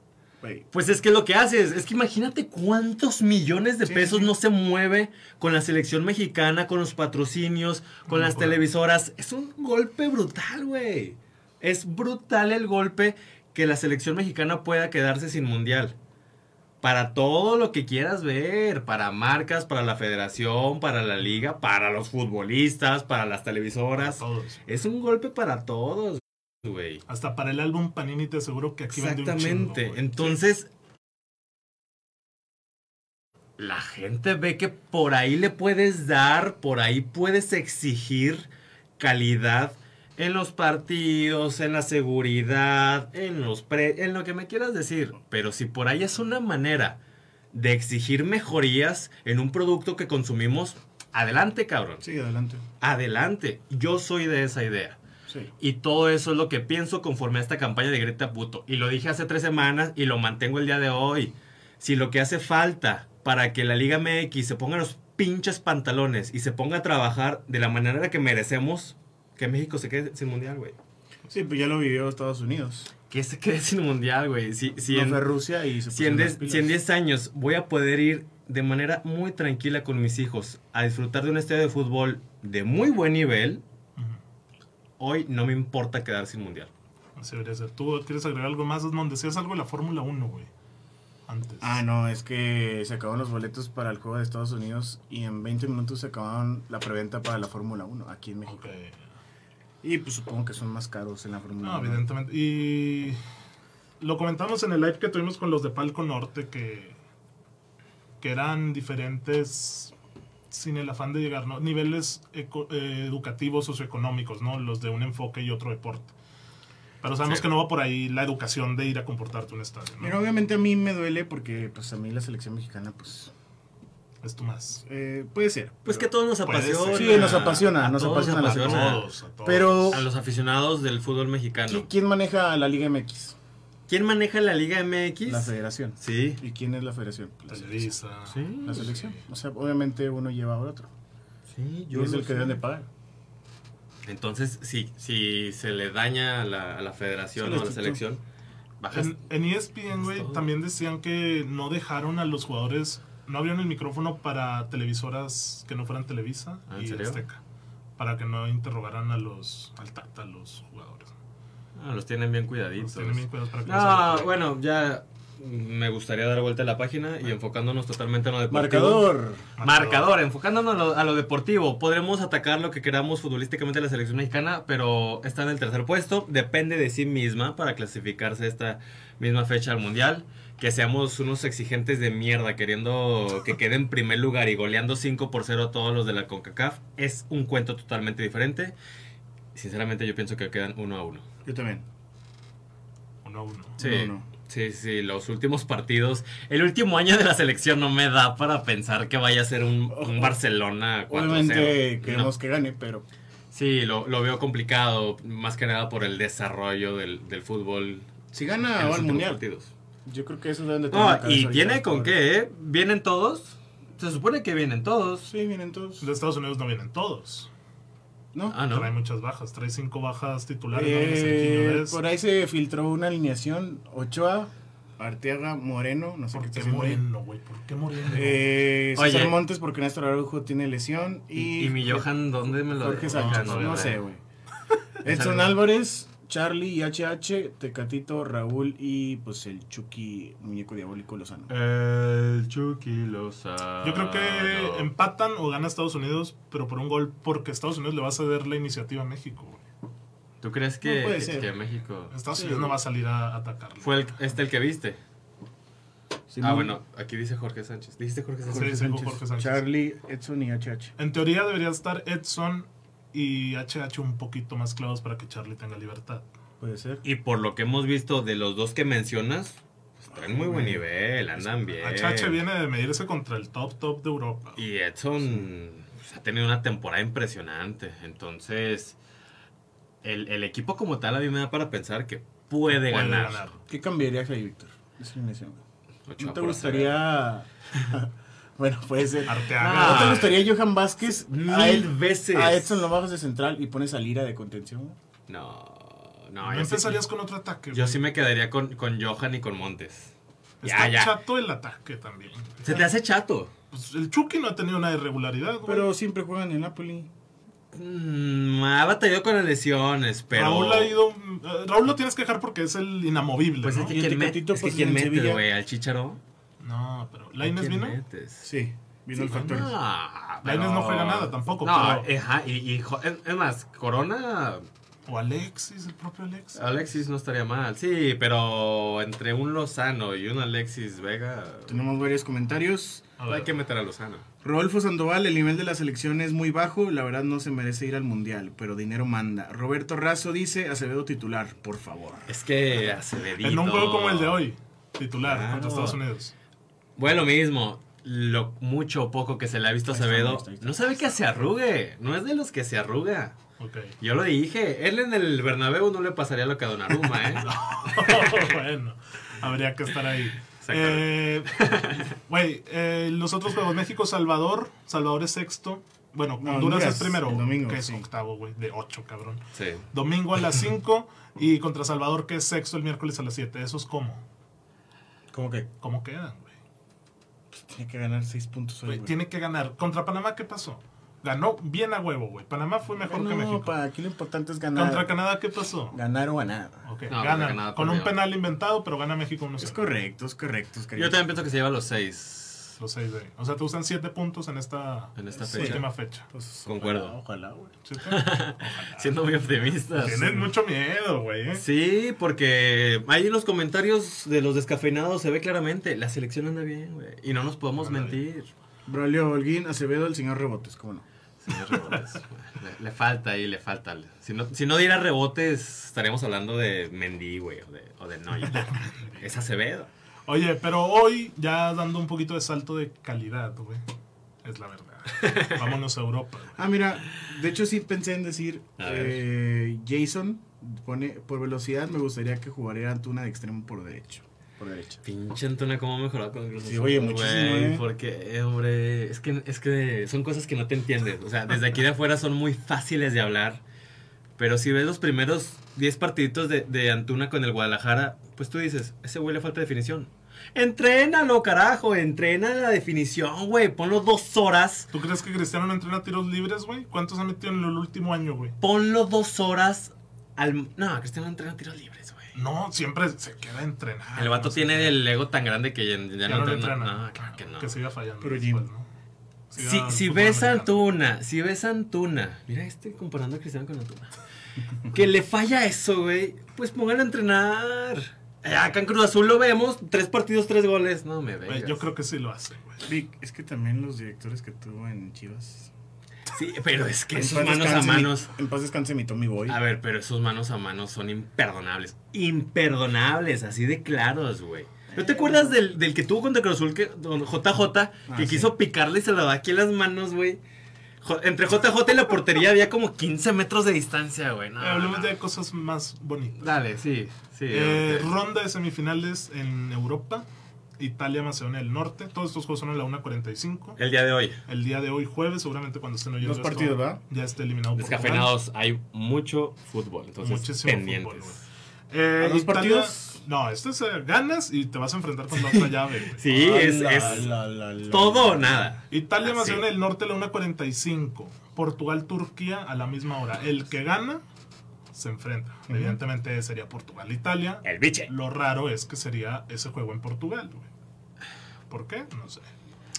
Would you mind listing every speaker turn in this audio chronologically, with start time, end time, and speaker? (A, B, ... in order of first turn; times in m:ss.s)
0:00.4-0:00.7 A
0:00.7-0:16.0 B
0:03.9-0:04.3 A
0:08.1-0:08.7 C
0:16.8-0:27.0 B
0:24.0-0:24.6 C
0:27.1-0:30.4 C
0:28.9-0:30.7 B
0:33.6-0:47.0 B
0:47.5-0:52.0 B
0:52.0-0:52.6 A
0:52.8-0:55.0 B
0:55.6-1:10.8 B
1:11.3-1:12.9 A
1:13.1-1:15.2 B
1:14.9-1:16.8 A
1:15.9-1:23.6 B
1:25.0-1:26.7 B
1:27.2-1:30.5 C
1:31.3-1:31.8 C
1:31.6-1:38.7 A
1:38.5-1:39.0 C
1:39.8-1:42.0 A
1:41.6-1:43.2 C
1:44.0-1:47.0 C
1:48.2-1:49.9 C
1:50.5-1:56.1 C
1:57.0-2:00.2 C
2:00.0-2:03.3 A
2:04.2-2:04.8 C
2:04.8-2:06.1 A
2:05.8-2:09.0 B
2:06.4-2:10.0 C
2:06.9-2:10.1 A
2:09.9-2:11.9 B
2:11.7-2:13.4 A
2:13.9-2:16.4 B
2:15.2-2:17.9 A
2:17.5-2:19.2 C
2:18.3-2:19.0 B
2:18.6-2:20.9 A
2:21.5-2:22.6 B
2:21.9-2:22.9 A
2:24.1-2:28.2 B
2:27.4-2:28.0 A
2:28.8-2:29.2 B
2:28.9-2:37.4 C
2:29.9-2:30.4 B
2:36.7-2:37.2 B
2:38.0-2:41.1 C
2:41.8-3:08.8 B
2:42.8-2:44.3 C
2:48.5-2:49.5 A
2:49.6-2:50.1 C
3:09.6-3:11.2 B
3:11.4-3:11.8 A
3:13.2-3:13.8 C
3:13.8-3:14.3 A
3:13.8-3:22.3 B
3:19.9-3:20.4 A
3:21.1-3:23.1 A
3:23.5-3:28.1 B
3:28.3-3:29.4 A
3:28.8-3:29.7 B
3:30.1-3:32.2 A
3:30.9-3:35.3 B
3:35.3-3:36.1 A
3:36.0-3:37.5 C
3:38.3-3:38.6 A
3:38.5-3:38.9 B
3:38.7-3:42.0 C
3:40.7-3:47.0 A
3:46.3-3:48.5 C
3:48.1-3:52.1 A
3:48.9-3:49.4 B
3:51.4-3:54.0 B
3:52.7-3:54.2 A
3:53.1-3:54.0 C
3:55.0-3:55.6 B
3:55.0-4:01.5 A
4:01.5-4:04.9 B
4:03.8-4:09.6 C
4:10.4-4:12.2 B
4:10.8-4:11.5 A
4:12.1-4:14.2 C
4:12.4-4:12.7 A
4:13.8-4:15.0 B
4:16.3-4:16.8 A
4:16.4-4:18.8 B
4:18.5-4:21.0 A
4:18.5-4:19.7 C
4:21.0-4:26.3 C
4:26.6-4:27.0 A
4:27.0-4:32.4 B
4:30.2-4:30.8 A
4:31.8-4:34.6 C
4:34.6-4:39.0 B
4:40.0-4:43.5 B
4:42.8-4:43.6 C
4:43.7-4:45.6 A
4:46.1-4:47.0 B
4:46.2-4:55.0 A
4:49.3-4:50.4 C
4:49.6-4:50.5 B
4:51.3-4:52.8 B
4:55.3-4:57.0 B
4:56.4-4:58.0 C
4:57.7-5:01.2 B
5:00.6-5:02.9 C
5:02.6-5:03.5 B
5:03.7-5:05.9 C
5:05.6-5:07.1 A
5:07.7-5:11.0 B
5:10.3-5:14.0 C
5:13.6-5:16.2 B
5:13.9-5:15.4 A
5:16.6-5:18.0 C
5:17.4-5:18.5 B
5:18.4-5:19.7 A
5:19.2-5:24.7 B
5:20.4-5:22.1 C
5:25.1-5:26.7 C
5:26.6-5:31.8 B
5:31.7-5:33.1 A
5:33.2-5:33.6 C
5:33.3-5:34.2 B
5:34.4-5:42.3 A
5:42.3-5:44.4 B
5:43.4-5:46.3 C
5:45.2-5:46.0 B
5:47.0-5:53.4 B
5:49.9-5:51.2 A
5:53.6-5:53.9 C
5:54.0-5:58.5 B
5:57.4-6:14.2 C
6:00.6-6:02.1 B
6:06.4-6:08.0 A
6:09.6-6:09.9 B
6:15.3-6:15.7 A
6:15.8-6:16.5 C
6:17.5-6:19.2 A
6:18.9-6:23.7 C
6:23.0-6:25.2 A
6:24.8-6:26.0 C
6:25.9-6:26.8 A
6:26.8-6:29.9 C
6:27.1-6:28.2 B
6:29.6-6:31.5 A
6:30.9-6:32.8 B
6:32.8-6:36.3 C
6:35.2-6:35.9 B
6:35.4-6:37.8 A
6:36.7-6:37.2 B
6:37.8-6:41.6 C
6:38.0-6:40.5 B
6:41.5-6:48.5 B
6:47.8-6:48.2 C
6:48.9-6:51.1 A
6:51.4-6:59.9 B
6:51.7-6:52.0 C
6:58.4-6:59.5 C
7:00.3-7:03.8 C
7:04.4-7:06.6 C
7:05.2-7:05.7 B
7:06.6-7:15.0 A
7:08.8-7:09.2 B
7:15.0-7:23.6 B
7:16.6-7:17.8 A
7:24.4-7:34.9 B
7:34.9-7:38.6 C
7:38.6-7:42.3 B
7:42.3-7:45.0 C
7:44.2-7:47.8 B
7:46.3-7:48.9 C
7:48.2-7:48.7 A
7:49.5-7:50.8 C
7:49.6-7:54.1 B
7:54.8-8:01.9 B
8:01.5-8:02.9 C
8:02.8-8:05.7 A
8:06.3-8:08.3 B
8:07.1-8:09.6 A
8:09.5-8:20.4 B
8:14.9-8:15.6 A
8:18.1-8:18.5 A
8:21.0-8:25.2 B
8:24.6-8:26.6 C
8:26.4-8:28.2 B
8:27.5-8:30.3 C
8:30.8-8:33.8 C
8:33.8-8:34.4 B
8:34.5-8:38.3 C
8:36.2-8:37.0 A
8:37.8-8:41.4 B
8:40.2-8:47.3 C
8:42.2-8:43.2 A
8:45.4-8:47.4 B
8:46.3-8:48.8 A
8:47.9-8:49.7 B
8:48.9-8:54.2 C
8:54.9-9:00.7 C
8:55.7-8:56.0 A
8:57.6-8:58.1 B
9:01.7-9:02.5 C